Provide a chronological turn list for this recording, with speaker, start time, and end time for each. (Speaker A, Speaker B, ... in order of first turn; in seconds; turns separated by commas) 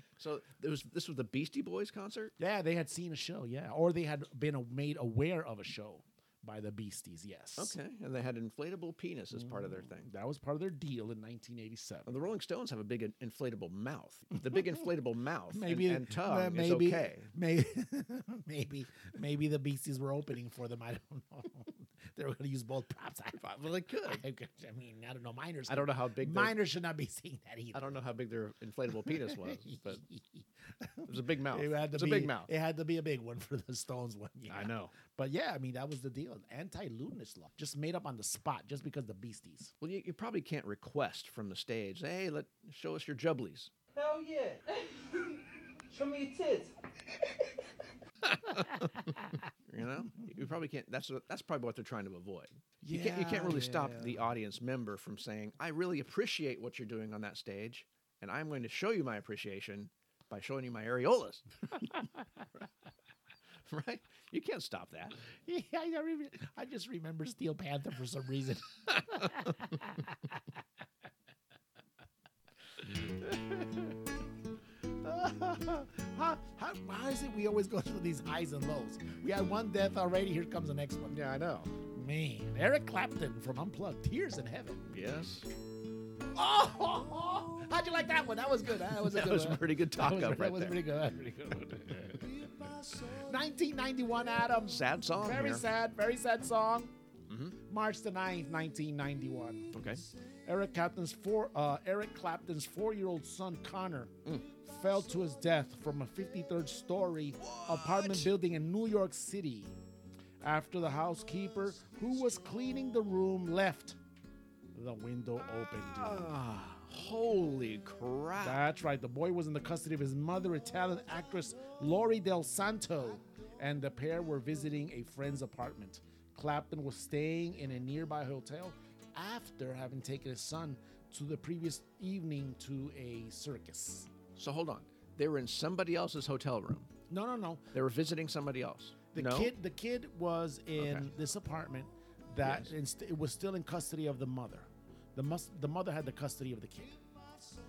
Speaker A: 0.2-2.3, Speaker B: 2.4-7.8, Speaker A: 7.6-10.1, Speaker B: 9.3-12.1, Speaker A: 12.1-17.3, Speaker B: 14.5-14.8, Speaker B: 15.5-23.4, Speaker A: 23.3-24.2, Speaker B: 24.0-28.0, Speaker A: 25.7-26.6, Speaker A: 27.7-30.0, Speaker B: 29.0-39.7, Speaker A: 31.1-32.5, Speaker A: 34.5-34.9, Speaker A: 39.8-43.7, Speaker C: 43.9-46.7, Speaker A: 48.3-61.5, Speaker B: 52.8-54.3, Speaker A: 63.7-65.2, Speaker B: 65.4-70.3, Speaker B: 75.0-81.2, Speaker A: 81.1-81.7, Speaker B: 81.8-84.8, Speaker A: 84.9-85.5, Speaker B: 86.3-97.0, Speaker A: 89.0-90.8, Speaker A: 94.7-95.6, Speaker A: 97.3-97.6, Speaker B: 97.6-99.8, Speaker A: 99.7-100.0, Speaker B: 100.5-109.8, Speaker A: 107.4-108.3, Speaker B: 110.4-114.0, Speaker B: 114.7-116.3, Speaker A: 115.8-118.6, Speaker B: 118.4-134.1, Speaker A: 134.4-136.9, Speaker B: 137.1-137.7, Speaker A: 137.7-139.5, Speaker B: 139.1-147.0, Speaker A: 140.8-141.1, Speaker A: 142.4-142.7